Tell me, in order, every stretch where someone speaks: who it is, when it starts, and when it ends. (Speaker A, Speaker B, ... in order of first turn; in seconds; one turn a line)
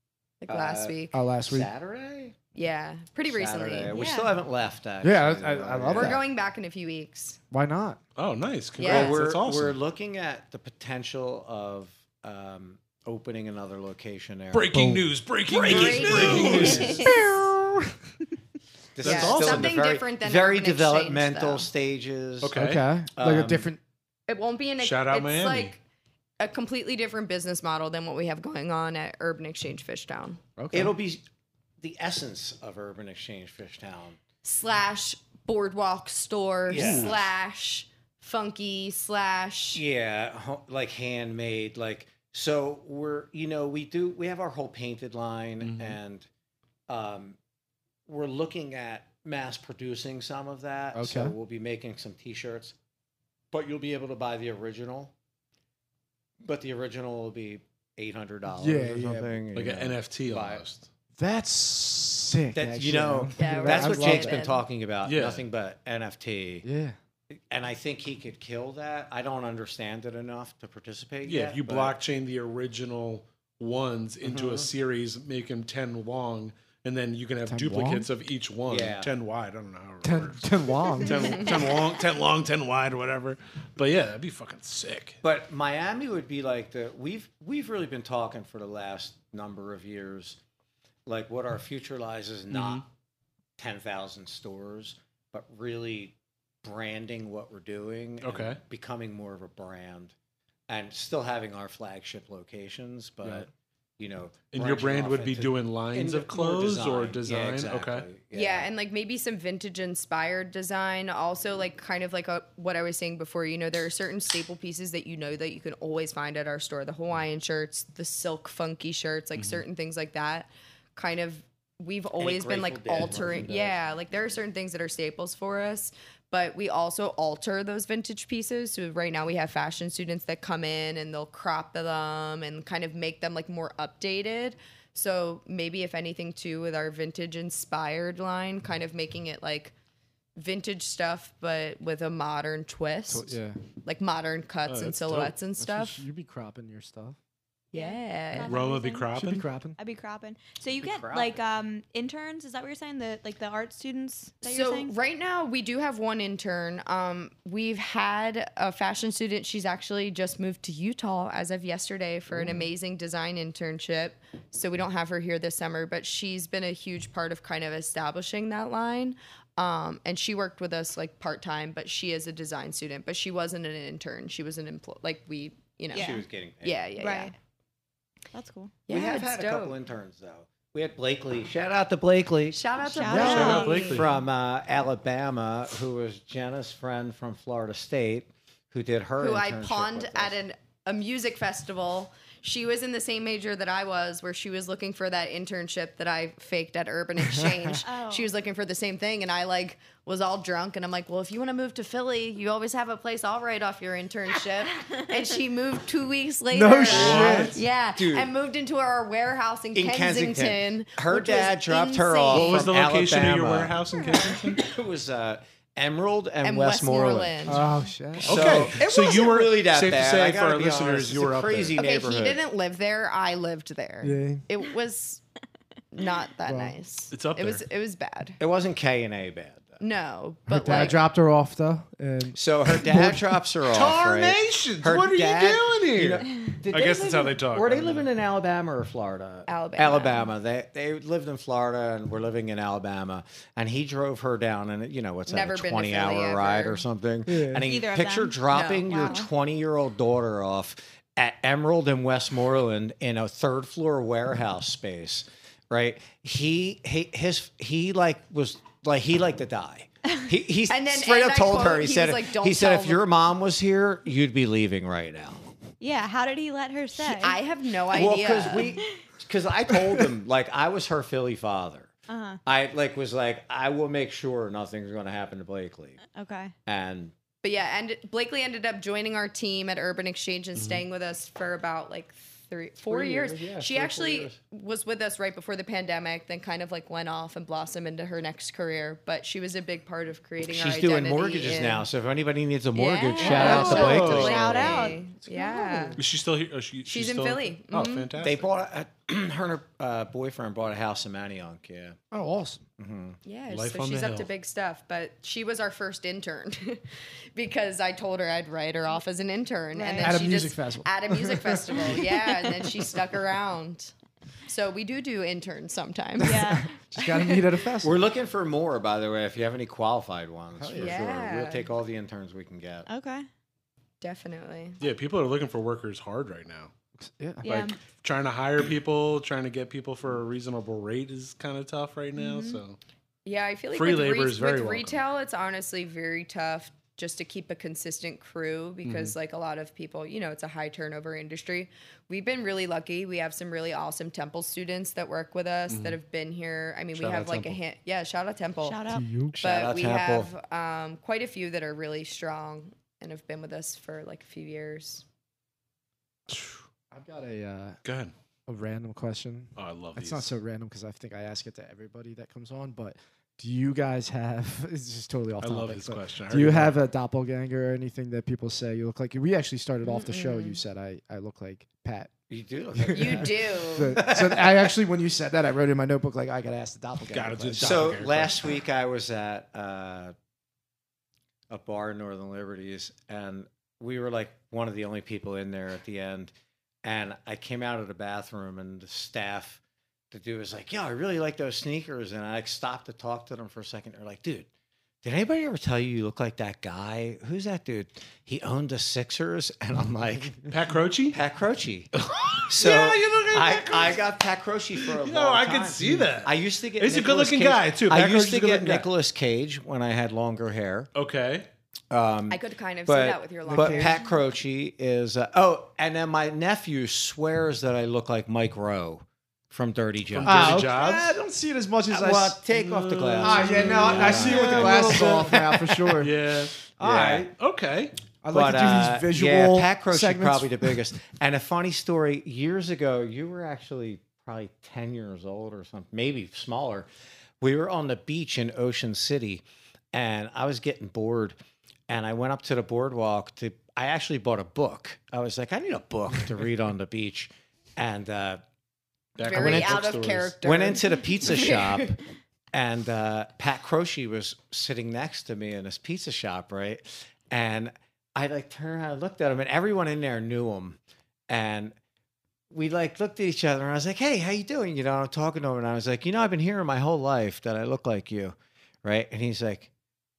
Speaker A: 0.4-1.1
Speaker B: 0.5-2.4
Speaker C: 1.1-1.7
Speaker A: 2.5-4.0
Speaker B: 3.3-6.2
Speaker D: 3.9-4.3
Speaker C: 5.0-6.2
Speaker A: 5.9-7.4
Speaker C: 7.5-8.0
Speaker E: 8.2-9.8
Speaker A: 8.8-9.2
Speaker B: 8.8-14.7
Speaker E: 14.5-17.1
Speaker C: 14.7-15.1
Speaker B: 15.5-17.1
Speaker A: 15.5-17.0
Speaker C: 16.4-17.9
Speaker D: 16.7-17.0
Speaker B: 18.9-22.5
Speaker E: 19.0-19.8
Speaker A: 19.0-21.7
Speaker E: 22.4-22.8
Speaker C: 22.5-23.8
Speaker B: 23.1-23.7
Speaker A: 24.3-25.8
Speaker E: 24.8-25.7
Speaker A: 26.4-30.4
Speaker C: 30.6-30.9
Speaker B: 30.7-31.2
Speaker B: 31.8-34.2
Speaker A: 34.4-39.8
Speaker B: 36.7-37.2
Speaker E: 36.7-37.1
Speaker B: 39.7-46.3
Speaker E: 45.6-46.0
Speaker B: 46.9-47.4
Speaker B: 48.1-52.7
Speaker C: 50.9-51.4
Speaker B: 53.5-55.1
Speaker B: 56.4-60.6
Speaker C: 58.5-59.3
Speaker E: 59.5-60.9
Speaker C: 61.2-64.4
Speaker B: 62.5-66.7
Speaker A: 63.4-64.6
Speaker E: 65.0-65.4
Speaker C: 66.6-67.0
Speaker B: 67.3-71.9
Speaker E: 71.2-85.2
Speaker B: 74.2-74.7
Speaker C: 77.5-78.1
Speaker B: 78.7-79.1
Speaker C: 80.0-81.5
Speaker B: 85.2-90.4
Speaker B: 91.0-92.8
Speaker E: 92.5-92.8
Speaker B: 93.6-100.1
Speaker E: 98.2-98.6
Speaker B: 100.7-108.7
Speaker E: 104.5-108.1
Speaker A: 108.3-139.7
Speaker B: 122.2-123.8
Speaker A: 140.3-146.0
Speaker C: 143.1-143.6
Speaker E: 144.7-145.3
Speaker C: 145.6-147.2
Speaker A: 147.7-148.6
Speaker D: 147.7-149.1
Speaker E: 148.4-149.4
Speaker C: 149.1-149.8
Speaker D: 149.8-154.9
Speaker B: 150.8-151.4
Speaker A: 154.4-177.3
Speaker C: 162.3-162.7
Speaker D: 175.9-176.2
Speaker B: 175.9-176.8
Speaker D: 177.0-177.3
Speaker D: 178.3-178.8
Speaker A: 178.8-179.8
Speaker B: 178.9-182.6
Speaker A: 182.5-184.0
Speaker D: 182.8-184.0
Speaker C: 183.1-183.6
Speaker B: 183.1-190.4
Speaker E: 183.2-184.1
Speaker A: 189.2-212.7
Speaker C: 197.2-197.8
Speaker D: 197.8-198.3
Speaker C: 206.5-207.6
Speaker E: 206.9-207.6
Speaker B: 207.9-208.3
Speaker B: 209.7-217.6
Speaker E: 212.3-214.6
Speaker A: 216.4-217.6
Speaker C: 217.5-218.7
Speaker B: 218.2-222.4
Speaker E: 218.2-221.8
Speaker A: 221.8-225.2
Speaker C: 224.0-224.4
Speaker A: 225.9-228.4
Speaker C: 226.4-226.7
Speaker E: 227.1-227.6
Speaker B: 228.4-229.8
Speaker A: 229.8-231.0
Speaker C: 230.5-233.4
Speaker B: 232.3-265.4
Speaker E: 233.7-238.1
Speaker A: 239.5-240.3
Speaker A: 245.3-246.8
Speaker C: 247.2-247.7
Speaker D: 247.6-249.3
Speaker A: 248.5-249.3
Speaker A: 260.7-263.0
Speaker D: 265.8-267.4
Speaker A: 267.0-268.7
Speaker B: 267.9-271.9
Speaker C: 269.7-270.1
Speaker D: 272.1-272.4
Speaker B: 272.4-276.0
Speaker D: 276.1-276.5
Speaker B: 276.6-277.1
Speaker A: 277.4-291.9
Speaker E: 280.6-280.8
Speaker B: 282.9-284.4
Speaker B: 290.5-294.9
Speaker A: 292.7-296.0
Speaker D: 293.2-295.0
Speaker E: 293.2-294.6
Speaker C: 295.4-296.0
Speaker E: 295.9-298.5
Speaker A: 296.8-298.1
Speaker B: 298.2-302.0
Speaker C: 302.1-302.6
Speaker B: 302.8-303.2
Speaker A: 303.2-306.8
Speaker E: 303.5-304.3
Speaker A: 307.3-313.9
Speaker C: 309.7-311.9
Speaker D: 311.9-312.5
Speaker A: 314.4-317.4
Speaker D: 316.2-316.7
Speaker C: 316.3-318.0
Speaker B: 317.8-322.9
Speaker C: 320.5-321.0
Speaker A: 320.7-321.7
Speaker D: 322.9-323.2
Speaker A: 324.0-324.8
Speaker E: 324.8-326.7
Speaker C: 327.0-327.4
Speaker D: 327.4-327.8
Speaker E: 327.4-332.8
Speaker D: 332.2-332.6
Speaker A: 333.2-348.8
Speaker E: 333.7-335.0
Speaker E: 338.8-339.1
Speaker E: 345.7-346.0
Speaker E: 347.0-347.6
Speaker D: 348.6-349.0
Speaker C: 348.9-349.4
Speaker B: 349.3-350.3
Speaker A: 349.4-355.0
Speaker E: 356.3-356.6
Speaker C: 356.9-357.8
Speaker E: 357.8-358.1
Speaker C: 358.5-372.1
Speaker E: 359.6-360.3
Speaker E: 365.4-366.8
Speaker A: 369.8-370.6
Speaker B: 372.3-374.7
Speaker C: 372.7-377.9
Speaker A: 372.9-374.0
Speaker E: 377.1-378.4
Speaker B: 377.6-380.1
Speaker B: 381.5-386.3
Speaker B: 386.8-394.5
Speaker B: 395.0-400.5
Speaker E: 400.5-401.2
Speaker B: 401.1-401.9
Speaker E: 401.9-404.1
Speaker B: 402.5-410.9
Speaker E: 404.8-408.9
Speaker E: 410.9-411.5
Speaker B: 411.9-420.7
Speaker A: 412.3-414.0
Speaker C: 413.5-413.9
Speaker E: 420.1-421.1
Speaker C: 420.2-422.4
Speaker B: 421.9-425.3
Speaker E: 422.5-426.6
Speaker C: 423.2-427.3
Speaker B: 426.8-427.3
Speaker E: 427.4-427.9
Speaker C: 428.2-430.8
Speaker B: 428.3-436.9
Speaker B: 437.4-441.4
Speaker B: 441.9-448.4
Speaker E: 449.1-450.3
Speaker A: 449.2-451.9
Speaker B: 449.3-449.8
Speaker B: 450.4-452.0
Speaker B: 452.5-460.8
Speaker B: 461.3-461.8
Speaker B: 462.5-469.7